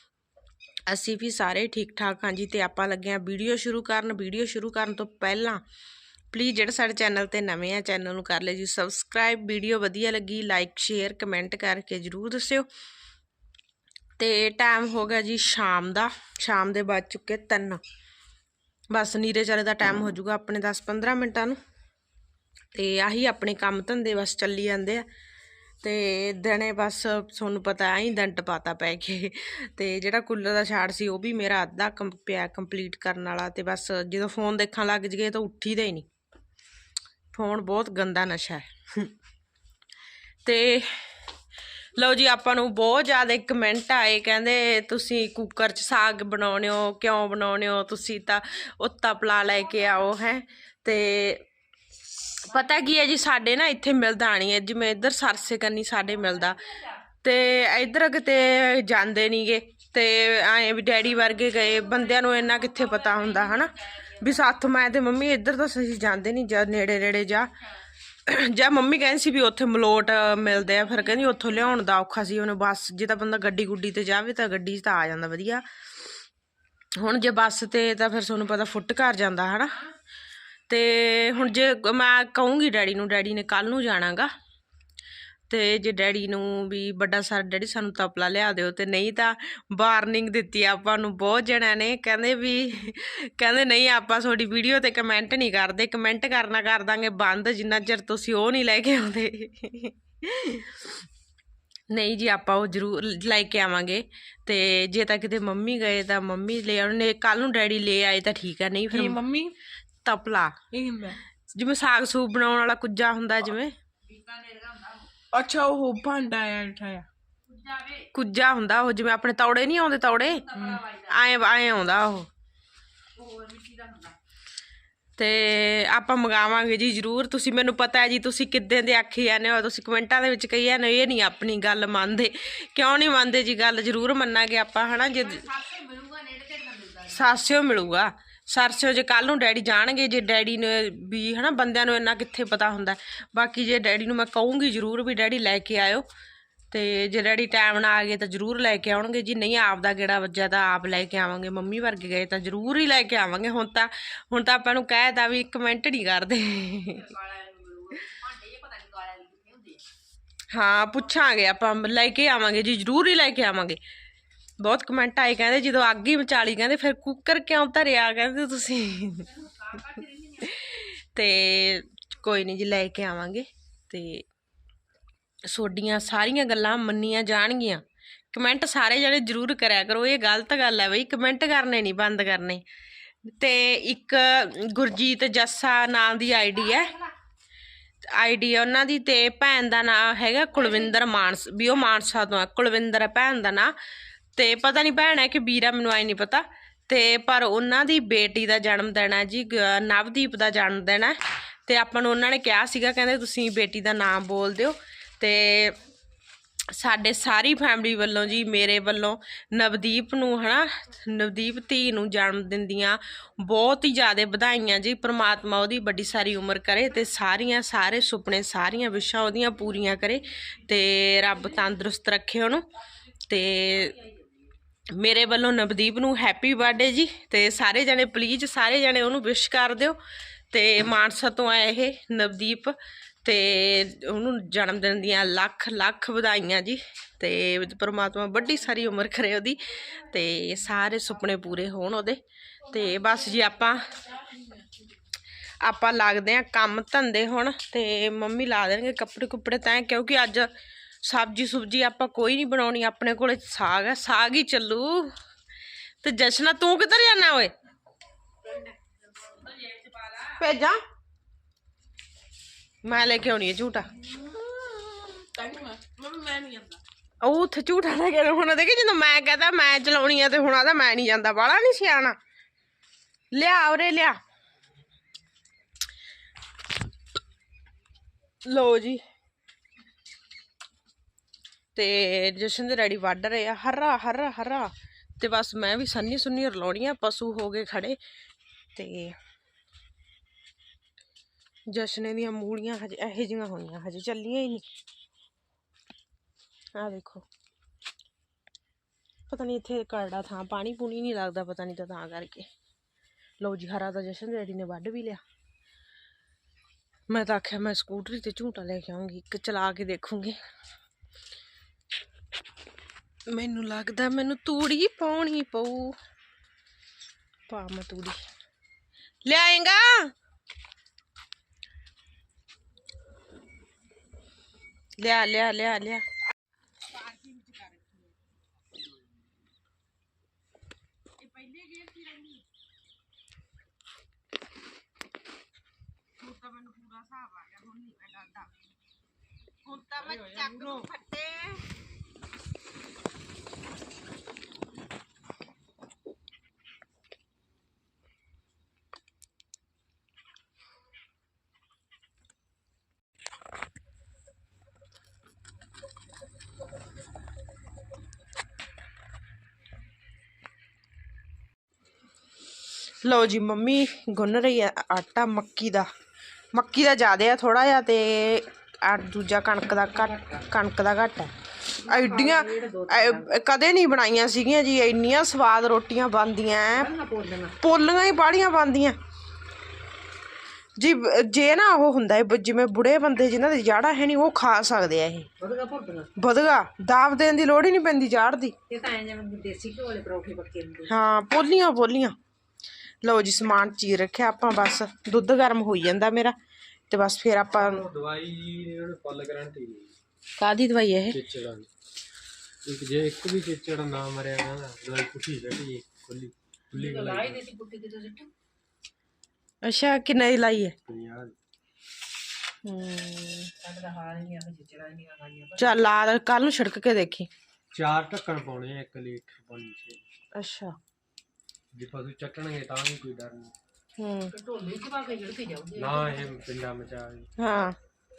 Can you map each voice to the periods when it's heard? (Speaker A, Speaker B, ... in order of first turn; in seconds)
Speaker A: 0.9-5.6, 6.3-12.7, 14.2-17.8, 18.9-21.6, 22.7-25.1, 25.8-36.1, 37.3-39.1, 40.5-41.1, 42.0-51.5, 52.4-67.5, 68.3-75.6, 77.0-79.8, 80.7-84.3, 85.5-100.9, 101.9-109.2, 110.0-110.5, 111.5-113.7, 118.1-122.3, 125.2-135.5, 137.1-146.1, 146.7-157.1, 160.5-163.8, 164.6-169.3, 170.4-174.2, 175.5-182.6, 183.3-187.0, 188.1-193.7, 194.4-201.2, 201.7-205.8, 206.7-222.7, 223.3-224.0, 224.9-230.0, 230.5-244.1, 245.6-250.5, 251.0-255.1, 256.0-257.5, 260.2-260.8, 262.8-263.9, 267.2-272.2, 273.3-274.2, 278.4-279.0, 281.8-288.0, 288.8-289.2, 291.7-294.7, 296.8-297.3, 299.3-302.5, 303.4-305.2, 307.1-310.4, 313.3-316.0, 317.5-318.2, 319.2-320.1, 325.0-326.1, 331.2-332.4, 336.2-338.6, 339.6-341.6, 363.0-365.9, 366.5-371.3, 371.8-376.9, 377.6-379.0, 380.8-385.3, 386.2-388.6, 390.9-392.1, 393.0-396.4, 396.9-397.9, 400.4-401.2, 409.6-410.8, 412.6-413.5, 415.6-417.3, 420.4-420.8, 424.0-424.3, 427.4-427.8
Speaker B: 62.1-64.2, 114.1-115.1, 117.5-118.0, 120.5-121.1, 123.2-124.2, 135.2-137.2, 156.9-159.8, 169.3-170.5, 224.0-224.2, 258.5-260.2, 265.4-266.7, 370.0-370.4, 371.8-373.3, 376.7-377.6, 385.4-386.1, 388.7-390.9, 406.7-408.3, 413.6-415.8, 424.3-426.4
Speaker C: 108.9-109.5, 110.7-111.2, 115.3-117.1, 120.5-120.8, 265.2-266.6
Speaker D: 397.5-399.9, 401.1-401.7, 402.7-407.4, 410.9-411.4, 417.7-420.0, 421.8-423.5, 425.8-427.3